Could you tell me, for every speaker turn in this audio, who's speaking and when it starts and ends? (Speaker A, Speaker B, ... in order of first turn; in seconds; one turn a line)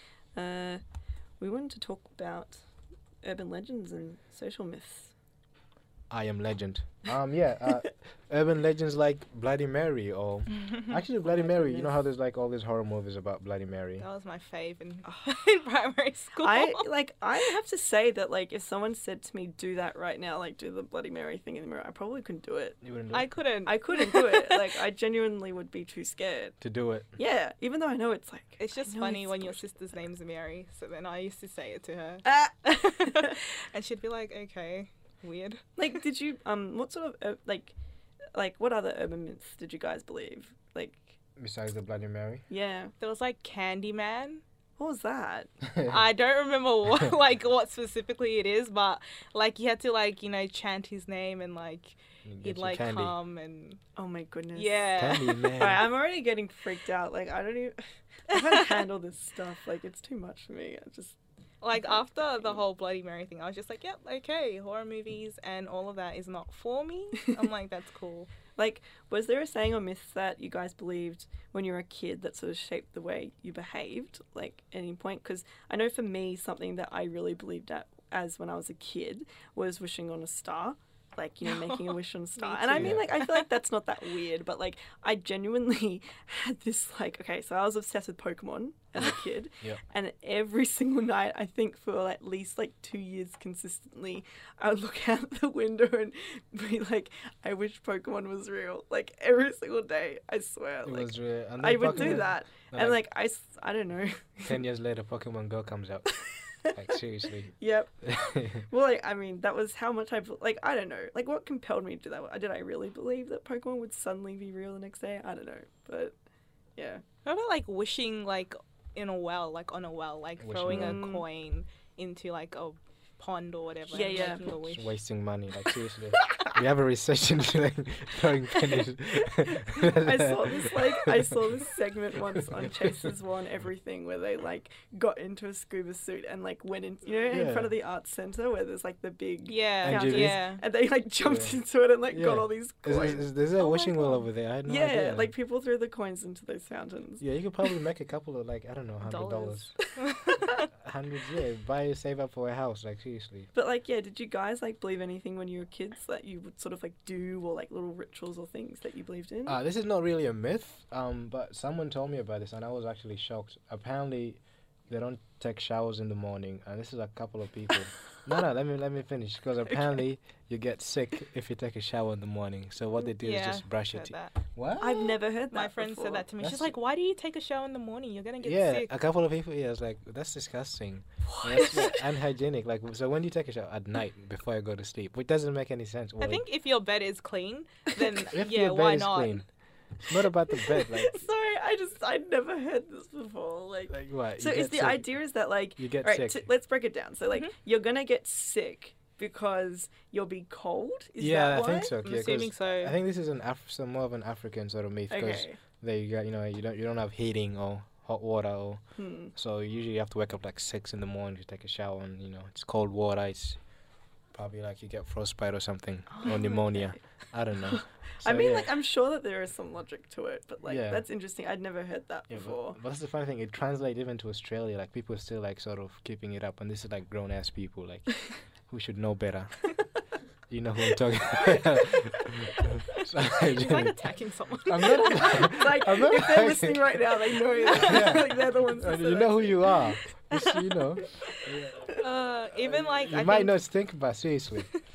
Speaker A: 0.3-0.8
Speaker A: 1.4-2.6
Speaker A: 3.2-5.1
Speaker B: 6.1-14.0
Speaker A: 11.2-12.0
Speaker C: 14.0-16.8
Speaker A: 16.4-22.8
Speaker B: 22.8-23.3
Speaker C: 23.1-24.6
Speaker A: 23.6-26.6
Speaker B: 26.6-27.1
Speaker A: 27.1-30.0
Speaker C: 28.6-35.6
Speaker A: 32.2-33.4
Speaker A: 35.8-37.8
Speaker A: 38.3-41.1
Speaker B: 41.4-42.4
Speaker A: 42.5-42.9
Speaker C: 43.0-44.4
Speaker A: 44.8-45.5
Speaker B: 45.6-46.0
Speaker C: 45.9-53.8
Speaker B: 52.2-53.2
Speaker A: 54.0-61.2
Speaker C: 54.5-55.6
Speaker B: 55.0-55.9
Speaker C: 61.6-68.3
Speaker A: 68.5-104.6
Speaker C: 81.4-83.5
Speaker B: 82.8-83.0
Speaker B: 100.8-103.0
Speaker B: 104.5-107.5
Speaker A: 107.6-116.2
Speaker B: 108.0-108.6
Speaker A: 116.8-117.0
Speaker C: 117.2-124.9
Speaker B: 120.4-121.0
Speaker A: 120.7-121.2
Speaker A: 123.9-124.6
Speaker B: 124.7-131.1
Speaker A: 126.2-126.5
Speaker A: 129.4-143.3
Speaker B: 137.3-137.7
Speaker C: 139.4-140.6
Speaker B: 139.8-140.5
Speaker B: 141.2-141.6
Speaker B: 142.1-145.3
Speaker C: 143.6-144.2
Speaker A: 144.6-147.7
Speaker B: 147.2-149.8
Speaker C: 149.0-150.7
Speaker B: 150.4-153.5
Speaker A: 153.5-159.6
Speaker B: 159.4-175.2
Speaker C: 173.2-174.4
Speaker A: 174.8-176.3
Speaker C: 175.5-178.9
Speaker B: 176.4-176.7
Speaker B: 178.4-186.4
Speaker A: 181.2-182.0
Speaker C: 181.6-181.9
Speaker C: 186.2-189.4
Speaker B: 188.3-189.5
Speaker B: 190.0-191.2
Speaker A: 190.5-202.0
Speaker B: 193.9-195.1
Speaker B: 195.8-196.4
Speaker B: 201.2-208.8
Speaker C: 202.0-202.9
Speaker A: 205.1-205.6
Speaker A: 209.0-209.3
Speaker B: 209.3-213.6
Speaker B: 214.3-218.7
Speaker A: 216.2-217.0
Speaker A: 217.6-222.8
Speaker B: 220.6-221.0
Speaker B: 222.3-229.6
Speaker B: 230.5-233.9
Speaker C: 233.4-235.4
Speaker B: 234.7-236.8
Speaker A: 235.0-240.0
Speaker B: 237.7-241.8
Speaker C: 237.7-238.4
Speaker C: 240.3-240.6
Speaker A: 241.0-241.2
Speaker C: 241.9-243.6
Speaker A: 242.7-243.0
Speaker B: 243.1-244.7